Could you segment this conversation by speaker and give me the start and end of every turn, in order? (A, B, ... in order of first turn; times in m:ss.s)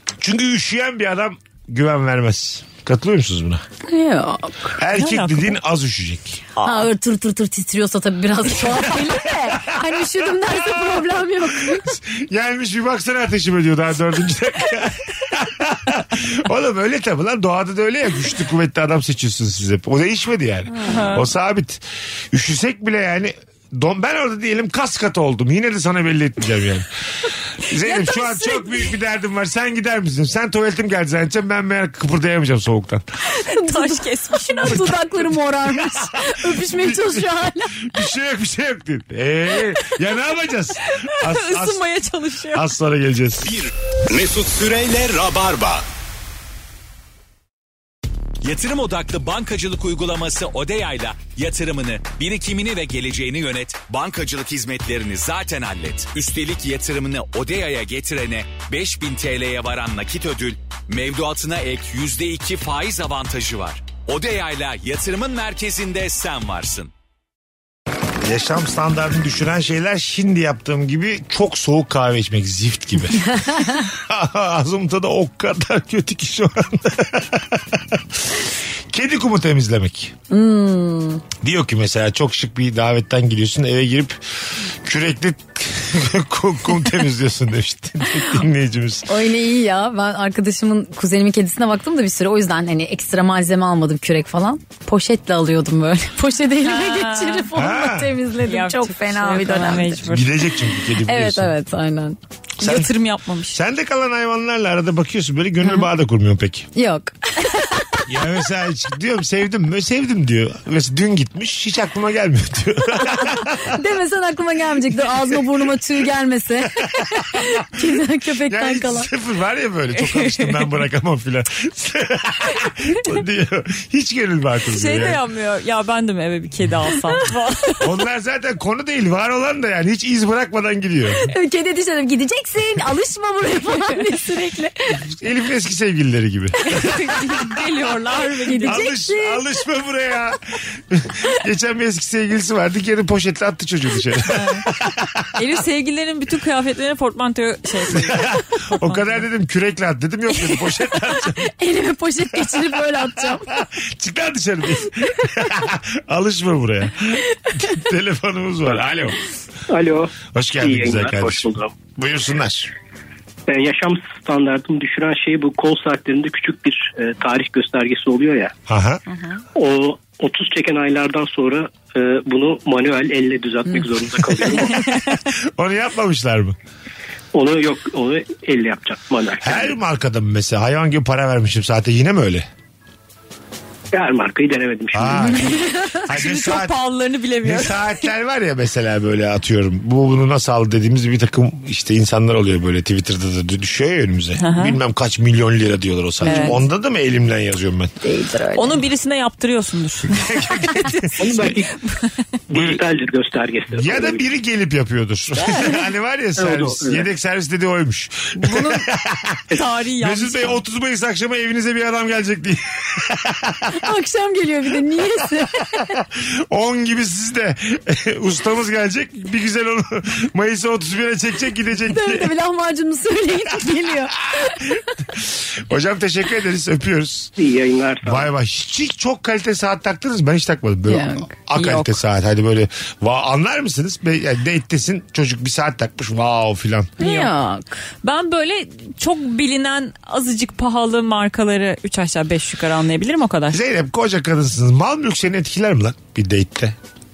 0:00.2-0:03.6 A
0:03.8-0:04.8 B
0:04.8-0:06.4 A
0:04.9-0:05.6 C
0:06.6-0:06.9 C
0:06.6-0:11.8 B
0:08.5-0:26.9 A
0:20.7-0:21.3 C
0:27.6-0:33.0 A
0:27.8-0:28.9 C
0:33.4-0:38.0 B
0:33.4-0:35.0 C
0:35.6-0:41.9 A
0:40.9-0:42.7 C
0:42.5-0:43.6 A
0:43.4-0:45.8 D
0:48.4-1:06.9 D
1:08.2-1:18.0 A
1:18.9-1:20.1 A
1:20.3-1:21.2 B
1:21.4-1:29.2 A
1:29.1-1:42.2 B
1:36.6-1:37.5 C
1:37.5-1:38.2 A
1:38.4-1:40.3 C
1:40.0-1:41.5 A
1:42.6-1:43.6 C
1:42.6-1:42.9 A
1:43.5-1:46.7 A
1:46.7-1:48.0 B
1:48.1-1:53.8 A
1:53.6-1:59.1 B
1:55.0-1:55.5 A
1:56.6-2:05.2 A
2:00.0-2:00.7 C
2:04.7-2:07.8 C
2:07.8-2:11.3 A
2:11.2-2:15.0 B
2:15.1-2:17.3 A
2:16.6-2:18.9 C
2:18.4-2:19.5 B
2:18.6-2:25.3 A
2:24.3-2:24.6 C
2:25.4-2:29.2 C
2:27.9-2:31.5 A
2:31.4-2:33.6 B
2:32.3-2:39.2 A
2:39.7-2:41.7 E
2:40.3-2:42.7 A
2:43.5-2:48.5 E
2:48.7-2:49.0 A
2:49.1-2:49.4 C
2:49.5-2:54.8 E
2:54.5-2:55.1 C
2:55.3-2:56.6 A
2:57.3-2:59.7 E
2:59.4-3:02.5 A
3:03.9-3:05.4 E
3:04.9-3:06.8 A
3:05.4-3:06.0 B
3:06.0-3:08.1 C
3:07.4-3:17.9 A
3:14.4-3:14.8 C
3:16.2-3:16.6 B
3:16.2-3:16.6 C
3:18.0-3:18.8 B
3:18.5-3:22.1 C
3:20.1-3:21.5 A
3:21.2-3:21.7 E
3:22.5-3:24.2 E
3:22.5-3:22.8 A
3:23.7-3:29.4 A
3:25.5-3:25.9 B
3:26.4-3:27.1 E
3:28.4-3:28.9 C
3:29.5-3:30.6 C
3:30.0-3:33.8 A
3:33.7-3:36.0 B
3:35.7-3:42.4 A
3:41.9-3:44.6 B
3:44.3-3:47.3 A
3:47.4-3:48.3 E
3:48.0-3:56.9 A
3:50.9-3:51.3 B
3:51.5-3:52.0 C
3:57.0-3:57.3 C
3:57.0-3:57.7 B
3:58.0-4:03.6 C
4:03.5-4:06.8 A